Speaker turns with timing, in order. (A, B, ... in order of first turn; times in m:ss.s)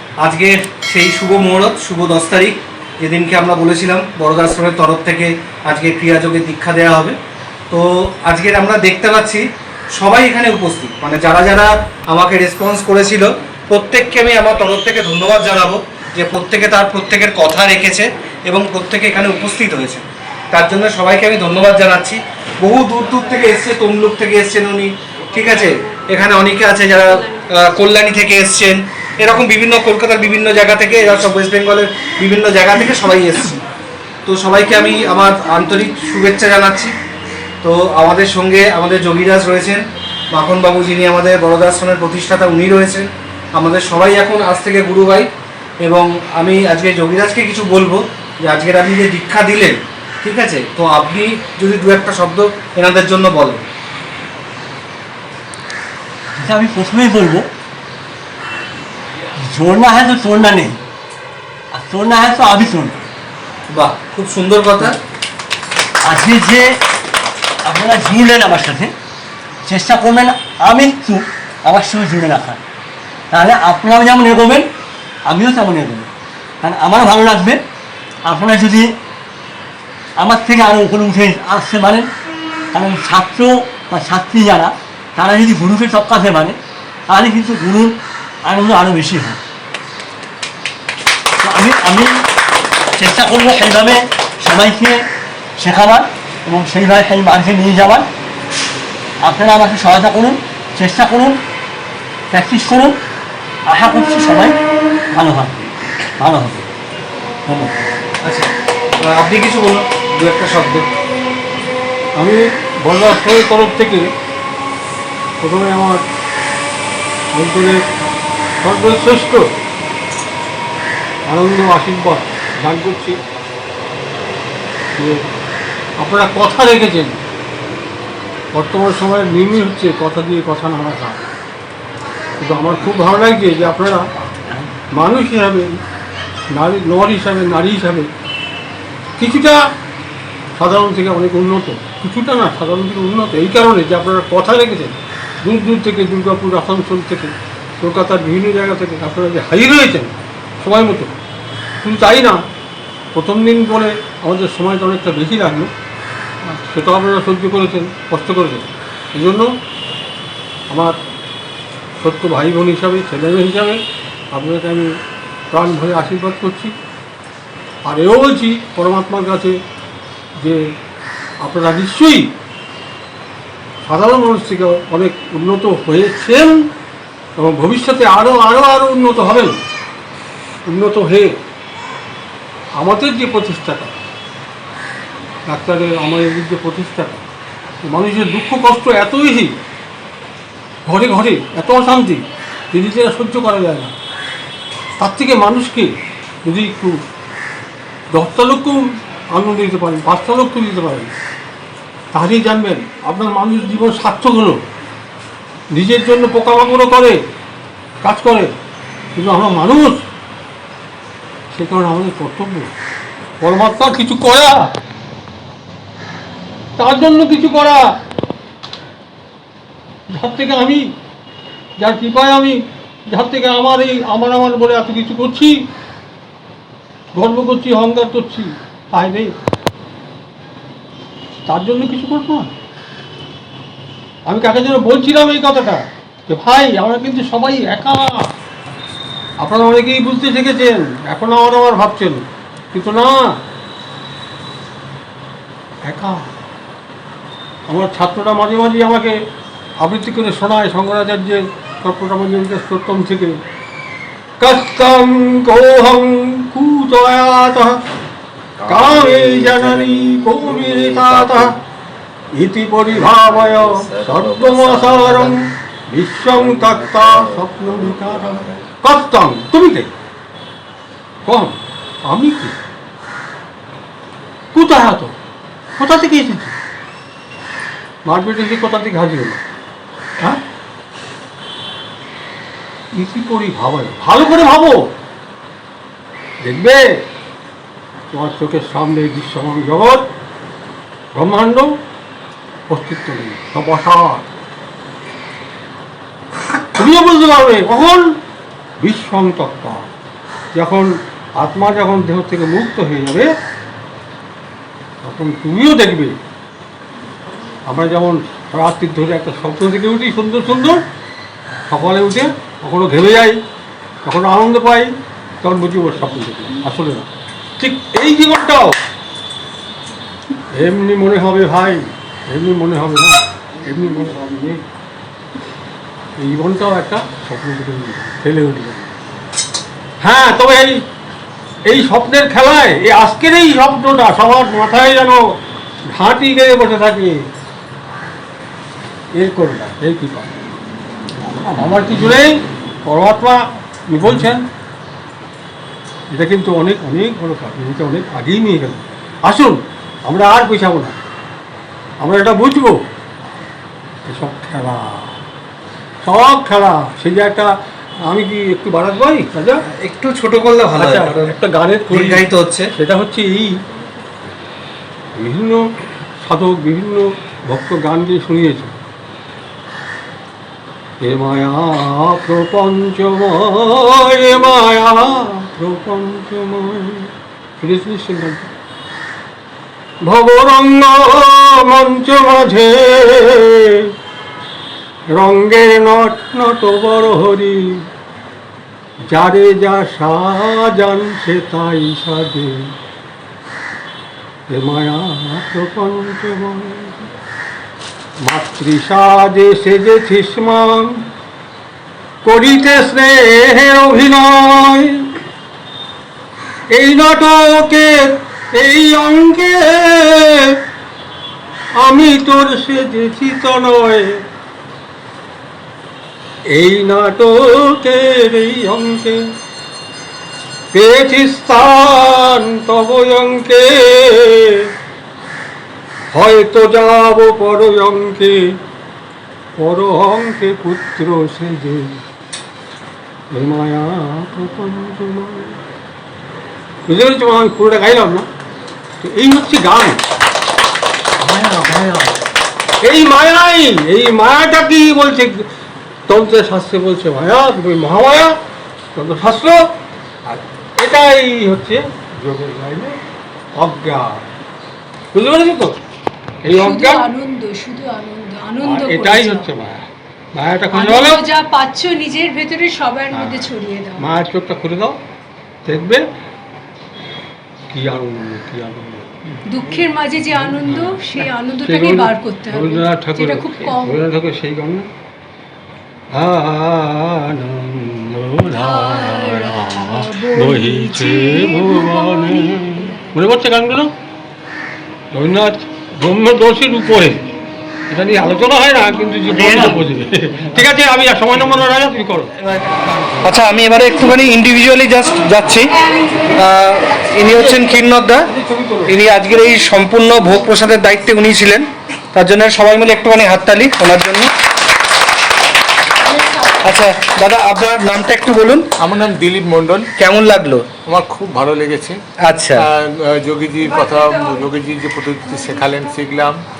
0:00.2-0:07.2 A
0:07.7-0:09.4 A
0:10.0-0:33.6 A
0:34.3-0:36.9 A
0:37.6-0:45.3 A
0:45.8-0:53.6 A
0:56.3-0:57.5 B
0:59.4-1:00.8 B
1:01.7-1:02.9 B
1:03.7-1:05.0 A
1:06.0-1:06.8 B
1:07.6-1:08.9 B
1:09.6-1:12.6 B
1:13.3-1:14.7 B
1:15.2-1:16.1 B
1:16.6-1:17.6 B
1:18.2-1:18.9 B
1:20.2-1:22.1 B
1:22.7-1:29.4 B
1:31.4-1:32.1 B
1:33.0-1:35.1 B
1:35.6-1:38.1 B
1:39.2-1:41.4 B
1:42.3-1:43.0 B
1:43.7-1:44.6 B
1:45.1-1:45.5 B
1:46.2-1:46.6 B
1:47.5-1:47.7 B
1:49.1-1:50.8 A
1:52.2-1:54.1 C
1:55.4-1:56.0 C
1:57.3-1:57.8 C
1:58.6-1:59.5 C
2:01.3-2:03.2 C
2:06.0-2:07.2 C
2:08.5-2:11.2 C
2:12.4-2:14.1 C
2:14.9-2:15.8 C
2:16.5-2:18.1 C
2:19.2-2:19.7 C
2:20.6-2:31.1 C
2:31.8-2:32.4 C
2:33.1-2:35.7 C
2:36.5-2:39.5 C
2:40.7-2:41.0 C
2:42.0-2:45.0 C
2:45.5-2:46.7 C
2:47.8-2:49.6 C
2:50.4-2:50.7 C
2:51.4-2:52.3 C
2:53.8-2:56.7 C
2:57.4-2:59.6 C
3:00.7-3:01.4 C
3:02.8-3:04.0 C
3:05.5-3:07.2 C
3:07.8-3:09.6 C
3:10.9-3:13.9 C
3:15.0-3:17.0 C
3:18.1-3:21.1 C
3:22.1-3:24.6 C
3:25.7-3:27.2 C
3:28.0-3:28.5 C
3:29.2-3:30.0 C
3:31.5-3:32.7 C
3:33.4-3:34.7 C
3:36.8-3:37.9 C
3:40.1-3:40.9 C
3:41.8-3:45.6 C
3:47.1-3:49.3 C
3:51.5-3:52.5 C
3:54.3-3:58.3 C
3:59.4-4:03.4 C
4:05.8-4:06.3 C
4:07.7-4:09.2 C
4:09.8-4:13.4 C
4:14.4-4:17.8 C
4:18.6-4:21.6 C
4:22.3-4:29.9 C
4:31.2-4:32.6 C
4:34.5-4:35.1 C
4:35.8-4:36.5 C
4:38.0-4:39.4 C
4:42.9-4:44.9 C
4:46.4-4:47.0 C
4:48.1-4:50.1 C
4:51.1-4:51.8 C
4:52.7-4:54.2 C
4:56.8-4:58.2 C
4:58.8-4:59.9 C
5:00.5-5:03.3 C
5:05.0-5:06.2 C
5:07.7-5:10.8 C
5:11.7-5:13.4 C
5:14.0-5:17.1 C
5:17.6-5:18.8 C
5:20.5-5:24.6 C
5:26.2-5:28.9 C
5:30.0-5:30.8 C
5:31.7-5:37.2 C
5:39.1-5:40.3 C
5:41.4-5:44.5 C
5:46.1-5:51.0 C
5:52.0-5:52.8 C
5:54.1-5:55.2 C
5:56.0-5:57.5 C
5:58.0-5:59.6 C
5:59.8-6:01.3 A
6:00.8-6:03.5 C
6:01.9-6:02.7 A
6:05.2-6:05.6 C
6:06.2-6:08.7 C
6:11.0-6:18.5 C
6:20.0-6:23.9 C
6:25.1-6:27.8 C
6:29.1-6:32.7 C
6:34.5-6:37.1 C
6:38.2-6:41.0 C
6:42.2-6:45.1 C
6:46.7-6:50.6 C
6:51.8-6:54.2 C
6:56.5-6:59.2 C
7:00.7-7:04.7 C
7:06.1-7:08.6 C
7:09.6-7:12.0 C
7:13.3-7:15.6 C
7:16.9-7:18.3 C
7:19.0-7:20.0 C
7:21.2-7:22.2 C
7:22.8-7:25.5 C
7:26.1-7:28.4 C
7:29.0-7:29.7 C
7:30.3-7:33.0 C
7:33.6-7:34.3 C
7:35.1-7:35.8 C
7:36.4-7:37.1 C
7:36.6-7:39.5 D
7:38.6-7:41.3 C
7:40.7-7:44.2 D
7:43.1-7:45.0 C
7:45.7-7:46.0 C
7:47.7-7:49.1 C
7:49.5-7:54.1 D
7:50.5-7:54.9 C
7:56.1-8:03.9 C
7:58.6-8:03.1 D
8:05.1-8:07.2 C
8:07.9-8:12.8 C
8:09.3-8:09.7 B
8:13.2-8:15.7 A
8:16.3-8:18.3 A
8:18.3-8:18.9 C
8:18.9-8:21.6 A
8:22.2-8:24.3 A
8:26.7-8:28.7 A
8:28.8-8:29.9 E
8:30.0-8:30.6 A
8:30.9-8:32.0 E
8:32.3-8:32.6 A
8:32.6-8:36.4 E